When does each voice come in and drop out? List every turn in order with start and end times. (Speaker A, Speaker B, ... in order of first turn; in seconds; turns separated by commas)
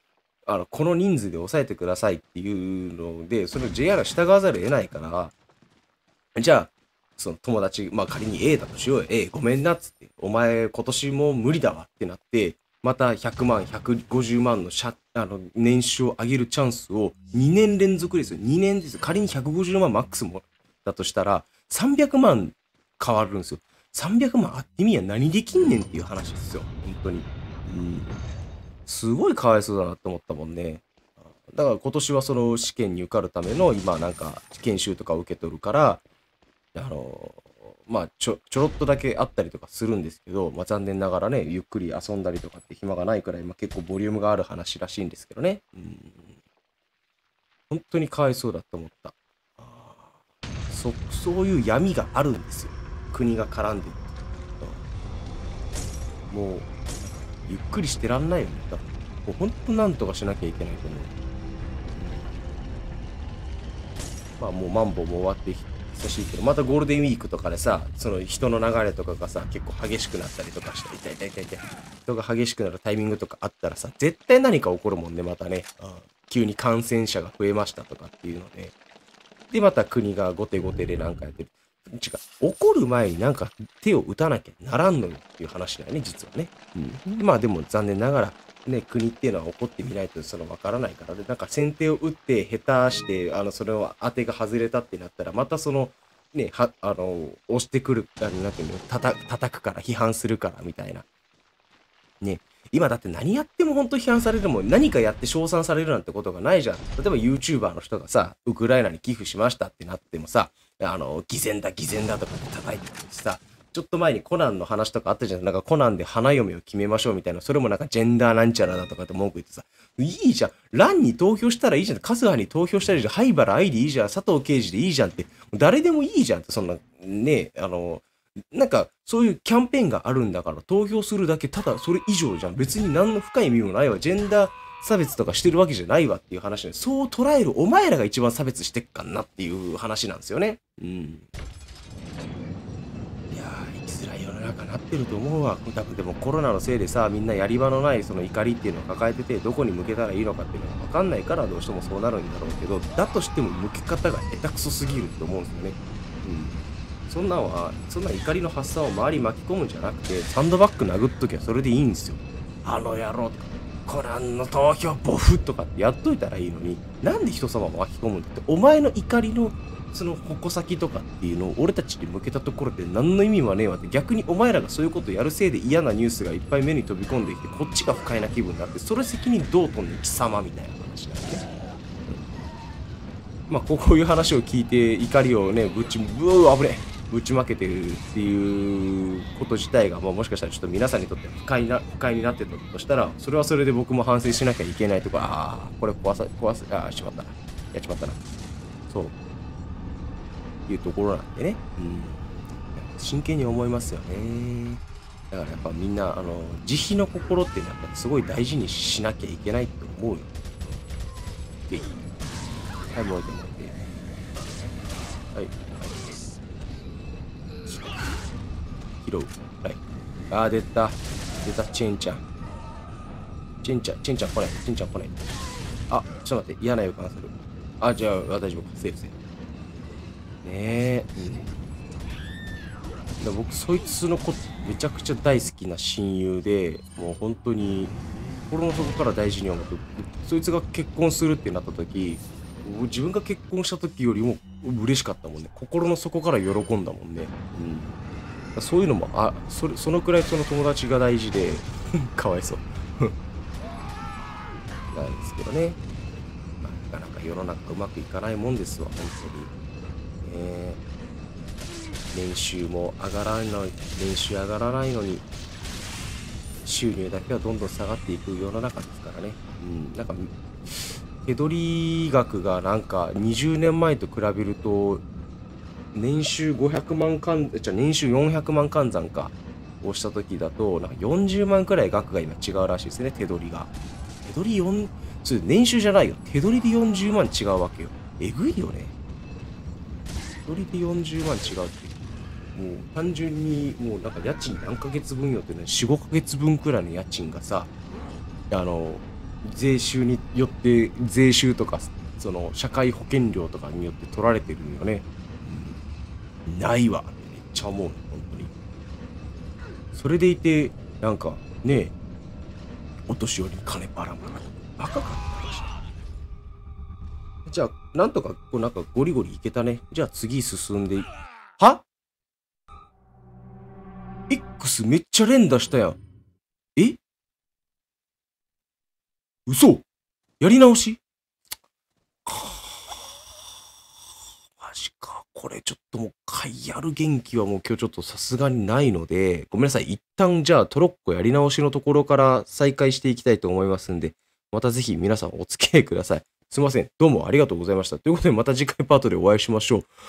Speaker A: 0.5-5.3, Speaker A: 6.3-28.2, Speaker A: 28.9-36.0, Speaker A: 36.7-46.4, Speaker A: 47.7-50.1, Speaker A: 50.7-54.0, Speaker A: 56.3-61.1, Speaker A: 62.0-62.4, Speaker A: 64.4-78.7, Speaker A: 79.5-101.0, Speaker A: 102.2-141.2, Speaker A: 143.3-181.4, Speaker A: 183.5-198.2, Speaker A: 198.9-199.1, Speaker A: 200.7-202.2, Speaker A: 202.7-210.8, Speaker A: 211.7-212.0, Speaker A: 212.9-213.8, Speaker A: 215.3-216.3, Speaker A: 219.0-222.2, Speaker A: 223.6-225.1, Speaker A: 225.9-229.2, Speaker A: 230.4-231.5, Speaker A: 233.2-237.9, Speaker A: 238.5-248.0, Speaker A: 248.6-253.1, Speaker A: 254.9-255.8, Speaker A: 256.6-259.5, Speaker A: 260.2-260.8, Speaker A: 262.1-265.2, Speaker A: 266.6-275.0, Speaker A: 275.9-283.7, Speaker A: 284.2-288.9, Speaker A: 290.4-292.0, Speaker A: 292.5-297.7, Speaker A: 298.5-305.8, Speaker A: 306.5-308.5, Speaker A: 309.9-311.9, Speaker A: 313.1-315.8, Speaker A: 317.5-321.8, Speaker A: 324.3-326.0, Speaker A: 329.5-329.8, Speaker A: 330.4-331.0, Speaker A: 332.2-333.4, Speaker A: 334.6-349.9